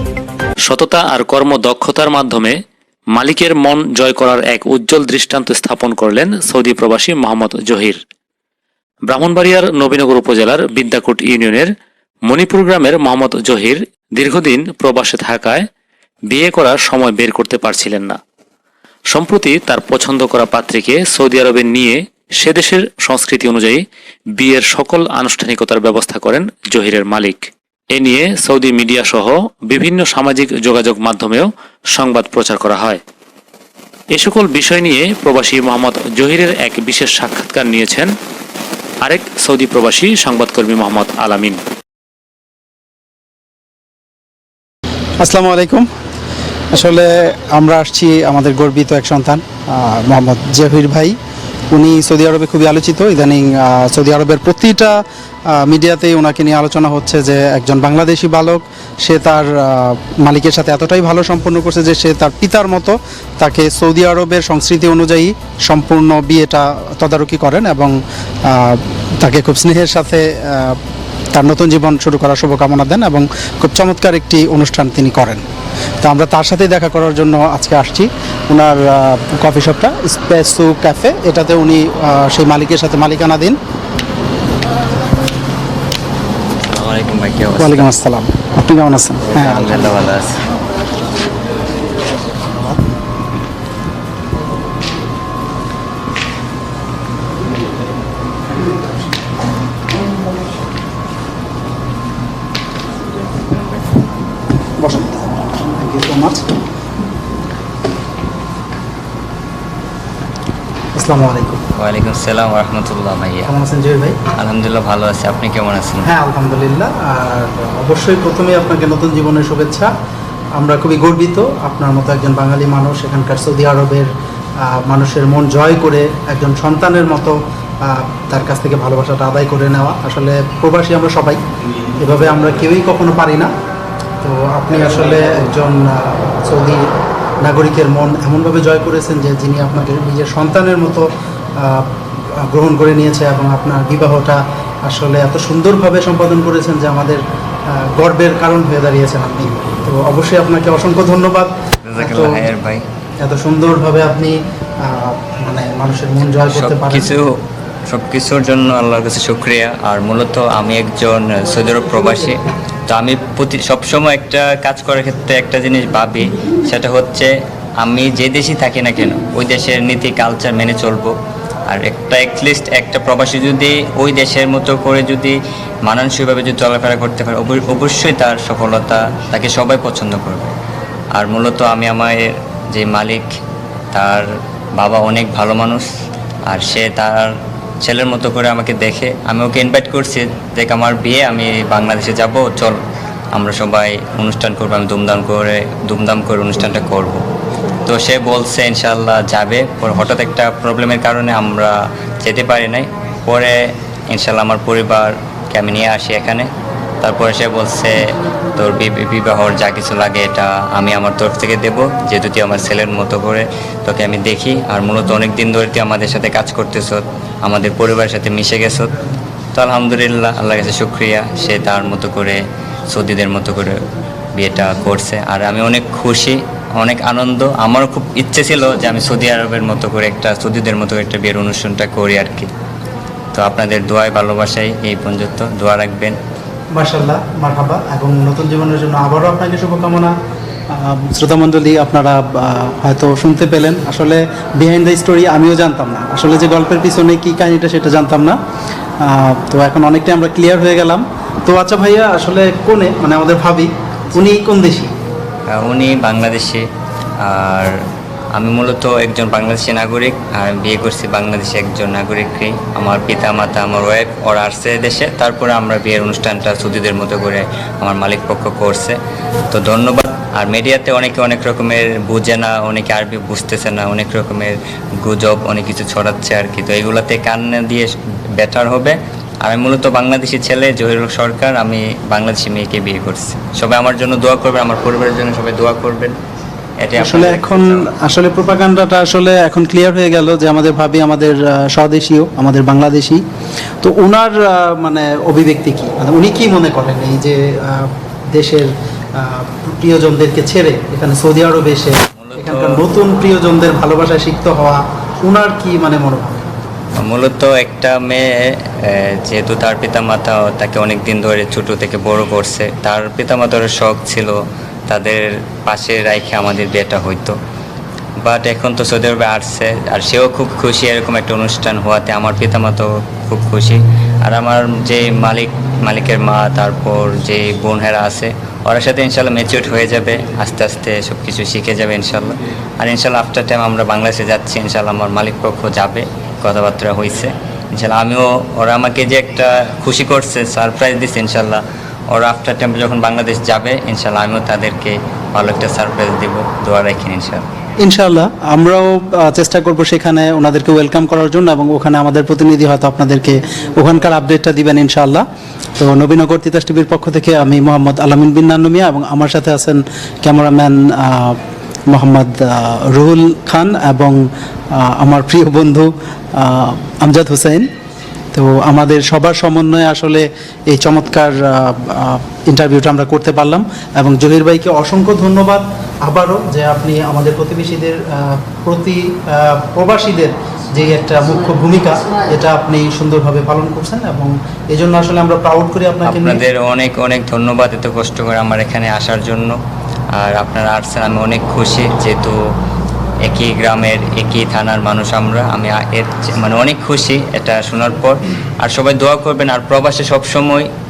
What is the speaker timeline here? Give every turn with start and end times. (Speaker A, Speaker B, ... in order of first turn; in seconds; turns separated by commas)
Speaker A: 0.7-2.5, Speaker A: 3.2-8.0, Speaker A: 9.1-11.7, Speaker A: 12.3-15.7, Speaker A: 16.3-18.2, Speaker A: 19.1-23.8, Speaker A: 24.4-33.0, Speaker A: 34.1-38.1, Speaker A: 39.0-41.6, Speaker B: 45.2-45.9, Speaker B: 46.7-51.2, Speaker B: 51.7-55.0, Speaker B: 55.5-70.8, Speaker B: 71.3-75.4, Speaker B: 76.0-83.6, Speaker C: 86.7-87.9, Speaker B: 87.6-90.0, Speaker C: 89.3-90.4, Speaker B: 104.8-106.4, Speaker B: 111.0-111.6, Speaker C: 111.8-113.5, Speaker B: 113.5-114.2, Speaker C: 114.4-116.1, Speaker B: 116.0-119.9, Speaker B: 120.6-124.1, Speaker B: 124.7-131.4, Speaker B: 132.0-133.5, Speaker B: 134.2-136.8, Speaker B: 137.4-141.1, Speaker B: 141.6-141.9, Speaker B: 142.4-147.2, Speaker B: 147.7-152.4, Speaker C: 151.8-152.8, Speaker B: 153.2-157.1, Speaker C: 156.4-157.3, Speaker C: 157.9-162.4, Speaker C: 162.9-167.3, Speaker C: 167.8-171.1, Speaker C: 171.7-180.5, Speaker C: 181.2-183.3, Speaker C: 183.9-184.3, Speaker C: 184.8-185.9, Speaker C: 186.5-192.8, Speaker C: 193.3-197.2, Speaker C: 197.9-203.6, Speaker C: 204.1-206.5, Speaker C: 207.0-218.9, Speaker C: 219.6-222.4, Speaker C: 222.9-223.8, Speaker C: 224.3-232.5, Speaker C: 233.3-236.2, Speaker B: 236.8-240.1, Speaker B: 240.7-248.4, Speaker B: 249.0-254.9, Speaker C: 255.6-256.6, Speaker C: 257.2-257.7, Speaker C: 258.4-269.0, Speaker C: 269.5-286.1, Speaker C: 286.8-287.9, Speaker B: 287.0-293.2, Speaker B: 293.8-306.4, Speaker C: 302.2-302.8, Speaker C: 307.0-314.3, Speaker C: 314.9-317.3, Speaker C: 318.2-341.6, Speaker C: 342.1-347.4, Speaker B: 347.8-355.2, Speaker B: 355.8-361.4, Speaker B: 361.9-364.2, Speaker B: 364.7-367.7, Speaker B: 368.3-386.4, Speaker C: 386.1-389.5, Speaker C: 390.2-392.3, Speaker C: 393.3-400.7